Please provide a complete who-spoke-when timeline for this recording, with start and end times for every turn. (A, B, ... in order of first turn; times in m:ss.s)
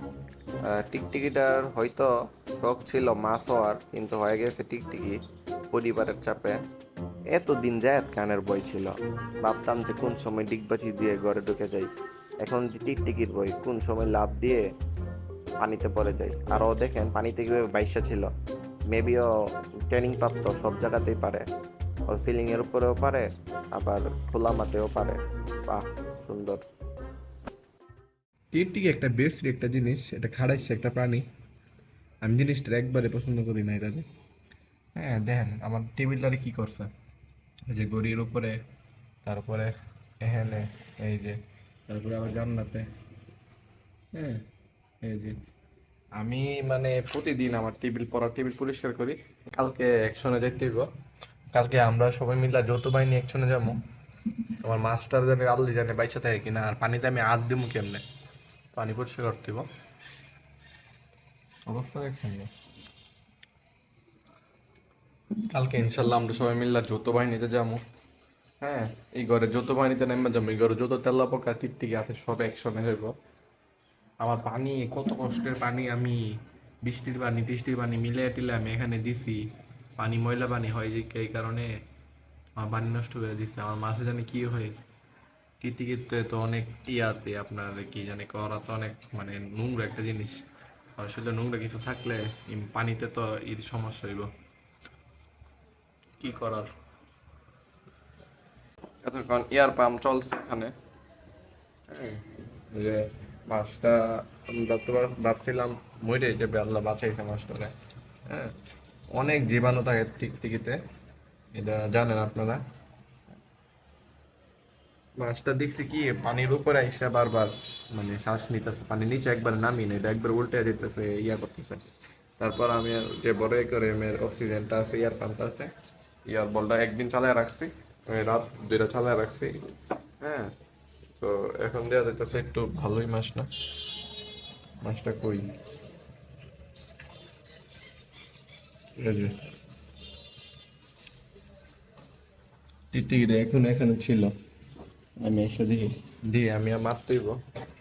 0:00.7-0:05.2 A
0:05.7-0:06.6 A
0:07.3-0:11.9 A
0:12.4-0:14.6 A
0:15.6-0:18.3 A
0:18.9-0:19.3 A
0:19.9-0:21.5 A
0:22.1-0:26.6 A
0:28.5-0:31.2 B
0:28.6-0:29.8 A
0:32.3-0:33.7 A
0:33.7-0:34.0 B
0:35.0-0:36.9 B
0:35.1-0:36.3 A
0:37.7-0:38.6 B
0:39.2-0:41.4 B
0:41.9-0:42.9 B
0:44.1-0:44.4 B
0:45.0-0:45.4 B
0:46.2-0:50.9 B
0:51.5-0:53.8 B
0:54.6-0:58.0 B
0:58.7-0:59.7 B
1:01.7-1:02.5 B
1:05.5-1:07.8 B
1:08.6-1:13.1 B
1:14.2-1:16.1 B
1:14.4-1:15.1 A
1:16.9-1:19.4 B
1:20.0-1:21.7 B
1:22.6-1:24.7 B
1:25.6-1:30.4 B
1:31.0-1:34.3 B
1:36.2-1:36.7 B
1:39.0-1:40.7 B
1:41.9-1:47.7 B
1:48.3-1:48.5 B
1:49.1-1:50.8 B
1:51.5-1:52.6 B
1:55.2-2:01.9 B
2:02.4-2:05.7 B
2:06.3-2:09.6 B
2:10.2-2:10.5 B
2:11.2-2:13.5 B
2:14.8-2:15.5 B
2:19.0-2:19.4 B
2:22.9-2:24.4 B
2:25.2-2:27.4 B